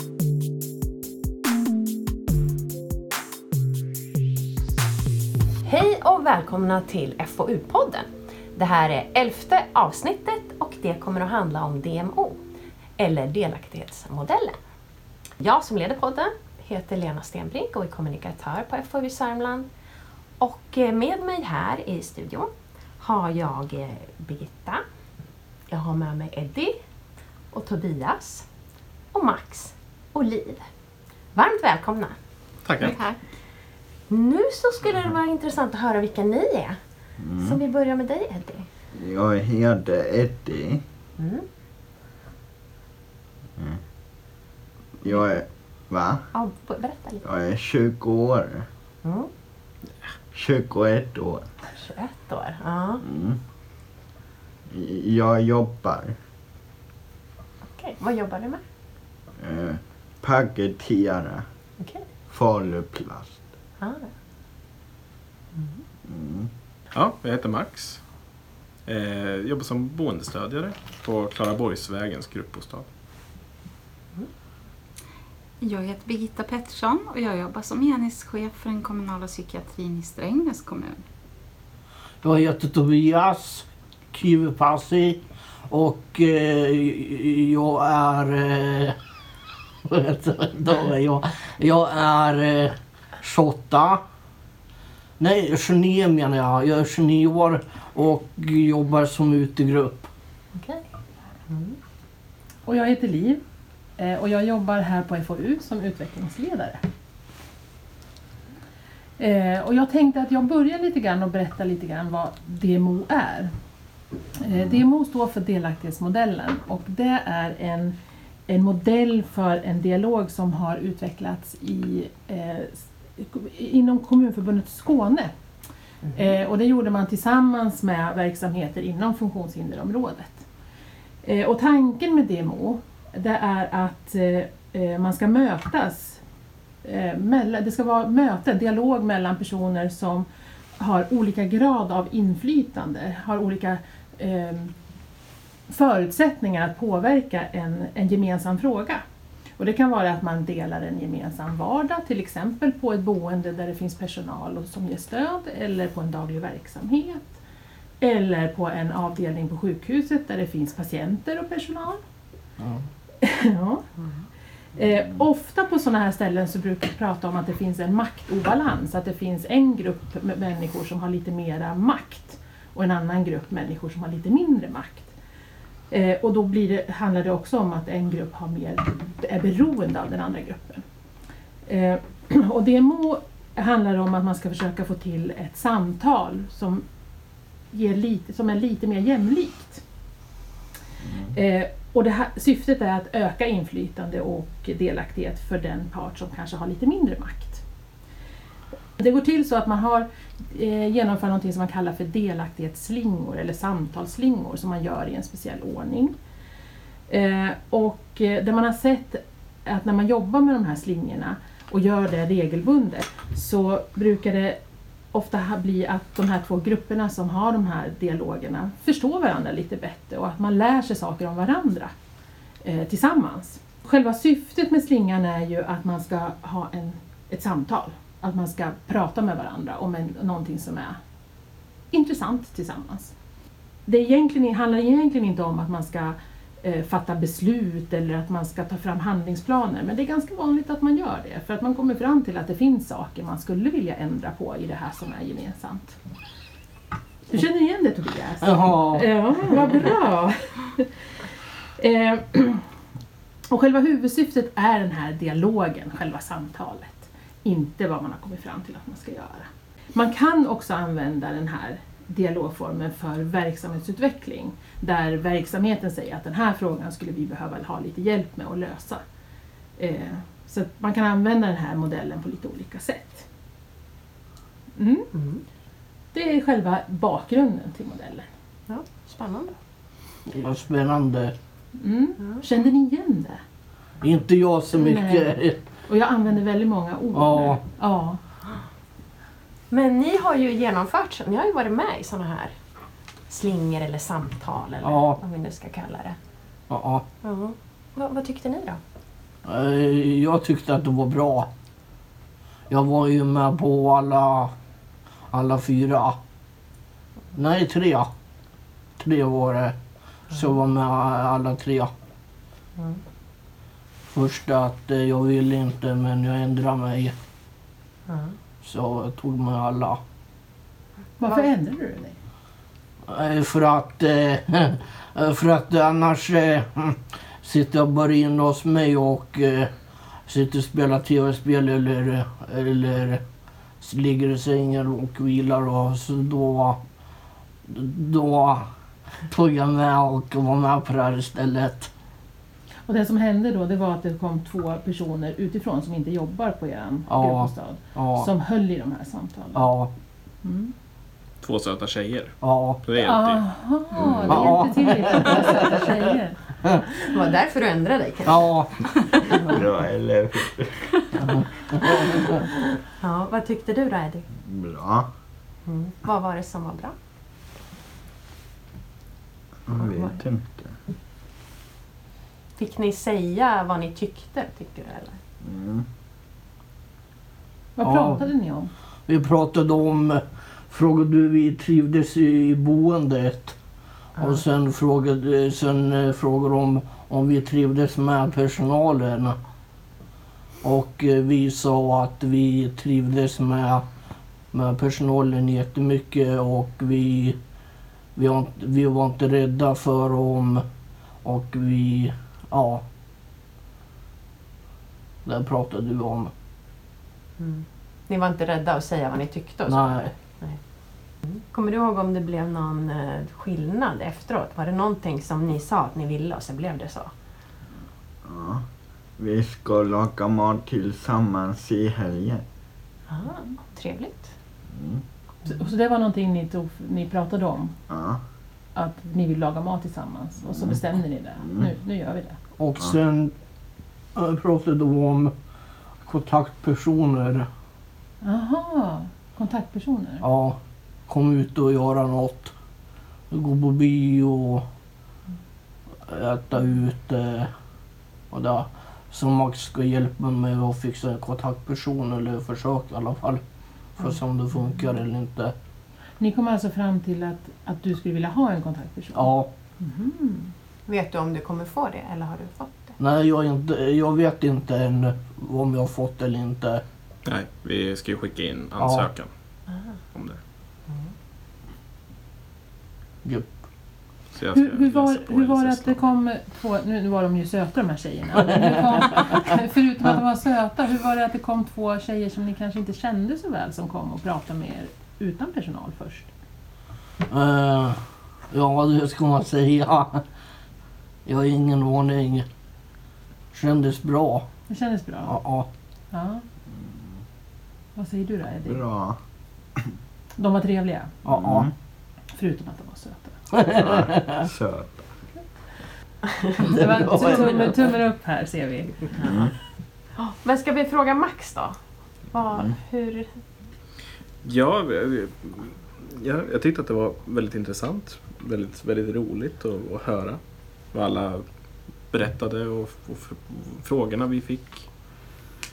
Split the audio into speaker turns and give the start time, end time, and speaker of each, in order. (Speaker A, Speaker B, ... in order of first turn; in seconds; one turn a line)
Speaker A: 5.6-12.4
Speaker A: 13.0-14.6
Speaker A: 15.4-19.7
Speaker A: 20.4-24.8
Speaker A: 25.7-26.8
Speaker A: 27.5-28.5
Speaker A: 29.1-30.7
Speaker A: 31.3-32.1
Speaker B: 32.6-33.0
Speaker C: 32.8-33.2
Speaker A: 34.1-36.8
Speaker D: 37.2-37.6
Speaker A: 37.4-38.7
Speaker D: 38.9-40.8
Speaker A: 41.2-41.5
Speaker D: 45.0-46.3
Speaker A: 46.3-47.2
Speaker D: 47.2-48.7
Speaker A: 49.0-49.3
Speaker D: 50.3-51.5
Speaker A: 51.8-53.0
Speaker D: 53.0-53.4
Speaker D: 54.7-56.1
Speaker A: 57.7-58.6
Speaker D: 59.4-61.5
Speaker A: 61.8-62.0
Speaker D: 62.3-63.4
Speaker A: 63.8-64.1
Speaker A: 65.6-65.8
Speaker D: 66.1-66.5
Speaker B: 66.9-68.3
Speaker B: 68.8-72.9
Speaker C: 75.6-81.0
Speaker E: 82.2-89.0
Speaker E: 89.8-94.0
Speaker E: 95.2-100.1
Speaker A: 100.6-100.8
Speaker A: 101.5-101.8
Speaker F: 102.7-103.4
Speaker F: 104.0-106.8
Speaker F: 109.2-113.5
Speaker F: 114.4-118.0
Speaker F: 118.5-125.3
Speaker F: 126.1-130.4
Speaker F: 131.2-136.2
Speaker F: 136.8-140.3
Speaker F: 140.8-144.7
Speaker F: 145.7-149.0
Speaker F: 149.6-157.4
Speaker F: 158.0-162.0
Speaker F: 163.2-163.8
Speaker F: 164.8-175.1
Speaker F: 175.9-180.8
Speaker F: 181.6-186.8
Speaker F: 187.7-189.8
Speaker D: 191.1-191.3
Speaker F: 191.3-197.6
Speaker F: 199.0-206.2
Speaker F: 207.1-214.6
Speaker F: 215.1-221.9
Speaker F: 222.6-231.0
Speaker F: 231.9-233.1
Speaker F: 233.8-246.0
Speaker F: 247.3-250.9
Speaker E: 248.4-249.8
Speaker F: 251.8-252.6
Speaker F: 253.5-269.0
Speaker F: 269.8-273.3
Speaker F: 274.8-275.1
Speaker A: 275.1-275.4
Speaker F: 276.1-278.3
Speaker A: 278.7-279.6
Speaker E: 280.2-281.3
Speaker F: 281.8-283.4
Speaker E: 284.0-285.6
Speaker F: 284.7-285.3
Speaker F: 285.9-288.2
Speaker E: 287.1-287.6
Speaker A: 289.7-292.5
Speaker A: 293.3-296.2
Speaker E: 294.8-295.2
Speaker E: 296.7-297.0
Speaker A: 297.2-298.8
Speaker E: 299.4-301.5
Speaker E: 302.7-304.5
Speaker E: 305.3-306.2
Speaker E: 307.3-308.1
Speaker E: 309.0-309.8
Speaker E: 310.3-311.9
Speaker E: 314.1-317.1
Speaker A: 318.1-318.4
Speaker E: 318.6-320.0
Speaker F: 321.2-322.1
Speaker E: 323.1-329.7
Speaker E: 330.3-333.2
Speaker E: 333.8-336.8
Speaker E: 337.6-338.7
Speaker E: 339.3-341.9
Speaker F: 342.9-349.7
Speaker E: 347.1-348.3
Speaker E: 349.5-349.9
Speaker F: 350.4-350.7
Speaker B: 351.4-353.4
Speaker E: 352.4-352.8
Speaker F: 353.0-356.4
Speaker D: 354.0-354.6
Speaker E: 354.3-355.8
Speaker A: 357.1-359.6
Speaker E: 358.2-358.8
Speaker D: 359.4-360.9
Speaker E: 361.3-362.2
Speaker A: 363.0-364.3
Speaker D: 364.4-365.1
Speaker A: 365.6-366.9
Speaker D: 369.7-370.7
Speaker A: 369.7-370.2
Speaker A: 372.6-375.2
Speaker D: 375.4-375.9
Speaker F: 377.8-378.7
Speaker E: 377.8-378.2
Speaker E: 379.1-383.6
Speaker E: 384.2-389.4
Speaker E: 390.6-393.8
Speaker E: 394.5-397.4
Speaker E: 398.1-400.6
Speaker E: 401.2-402.8
Speaker E: 405.2-406.3
Speaker A: 407.4-417.1
Speaker E: 409.7-410.1
Speaker D: 418.2-418.6
Speaker D: 419.2-422.4
Speaker A: 423.1-424.3
Speaker D: 424.7-425.0
Speaker F: 425.5-427.7
Speaker D: 427.9-428.2
Speaker F: 428.7-432.4
Speaker E: 432.6-433.3
Speaker E: 434.1-435.3
Speaker E: 436.0-437.5
Speaker F: 438.2-440.2
Speaker E: 440.2-442.5
Speaker E: 443.3-444.6
Speaker E: 446.0-447.5
Speaker E: 448.3-453.4
Speaker E: 453.9-455.5
Speaker F: 456.2-460.5
Speaker E: 459.1-459.5
Speaker A: 460.9-463.0
Speaker E: 463.0-466.8
Speaker B: 467.2-470.4
Speaker E: 468.8-469.1
Speaker E: 473.2-473.6
Speaker B: 474.3-476.0
Speaker F: 474.5-486.3
Speaker E: 478.5-479.3
Speaker E: 487.3-490.2
Speaker E: 491.2-492.4
Speaker E: 493.5-494.5
Speaker F: 494.7-495.4
Speaker E: 495.2-495.6
Speaker F: 496.1-496.4
Speaker F: 497.9-498.8
Speaker D: 498.6-499.2
Speaker F: 500.4-501.2
Speaker E: 501.2-501.7
Speaker D: 501.3-501.7
Speaker F: 502.3-503.4
Speaker E: 503.5-504.4
Speaker D: 503.7-505.1
Speaker F: 506.6-509.2
Speaker E: 506.7-507.9
Speaker D: 509.2-509.5
Speaker A: 510.1-511.8
Speaker A: 512.3-513.3
Speaker B: 514.4-525.3